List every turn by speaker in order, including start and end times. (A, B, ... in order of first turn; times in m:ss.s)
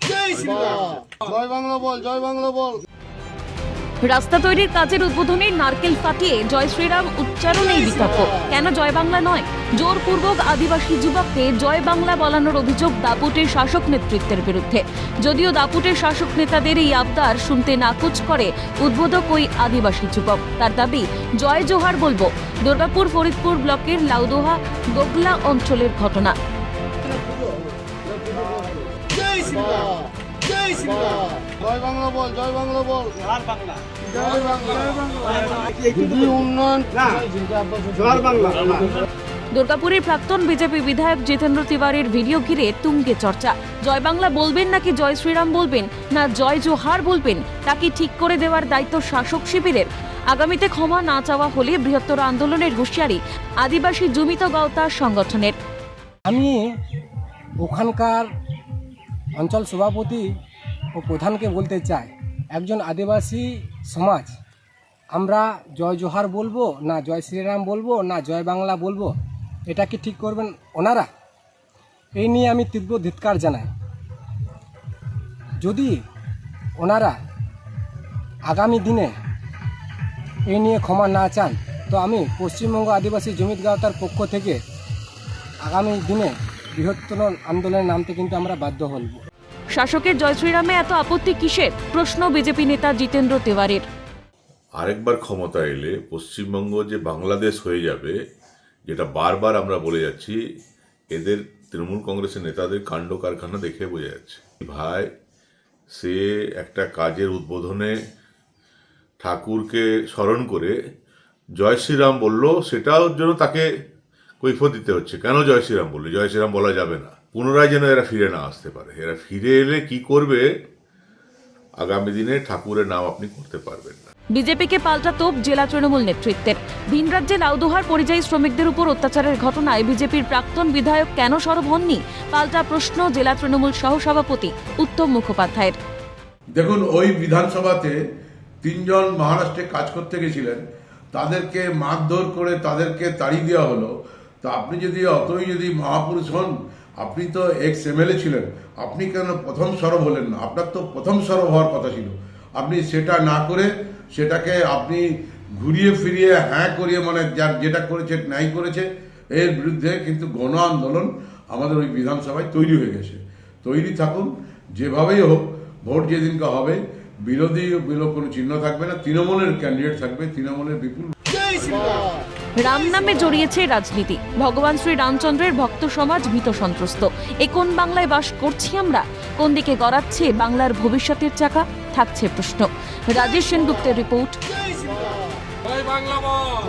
0:01.2-0:02.7 A
0:04.0-0:26.4 B
0:28.3-0:28.6 A
0:29.4-0:30.0 A
0:30.7-0:33.2 A
0:34.0-0:35.2 A
0:35.9-0:38.8 A
0:39.5-0:55.6 B
0:56.3-0:56.7 C
0:57.6-0:58.3 C
0:59.4-1:00.2 C
1:01.0-1:04.3 C
1:05.1-1:09.1 C
1:09.7-1:11.1 C
1:12.2-1:13.7 C
1:15.6-1:16.0 C
1:16.8-1:17.2 C
1:18.5-1:19.2 C
1:20.5-1:24.6 C
1:25.6-1:29.2 C
1:29.7-1:33.8 B
1:34.8-1:38.2 D
1:38.8-1:40.4 D
1:41.1-1:45.1 D
1:45.9-1:48.0 D
1:49.2-1:50.7 D
1:51.6-1:53.7 D
1:54.4-2:00.5 D
2:01.8-2:04.1 D
2:04.3-2:15.8 B
2:16.5-2:18.0 E
2:18.6-2:20.6 E
2:21.1-2:52.1 E
2:52.6-3:05.1 B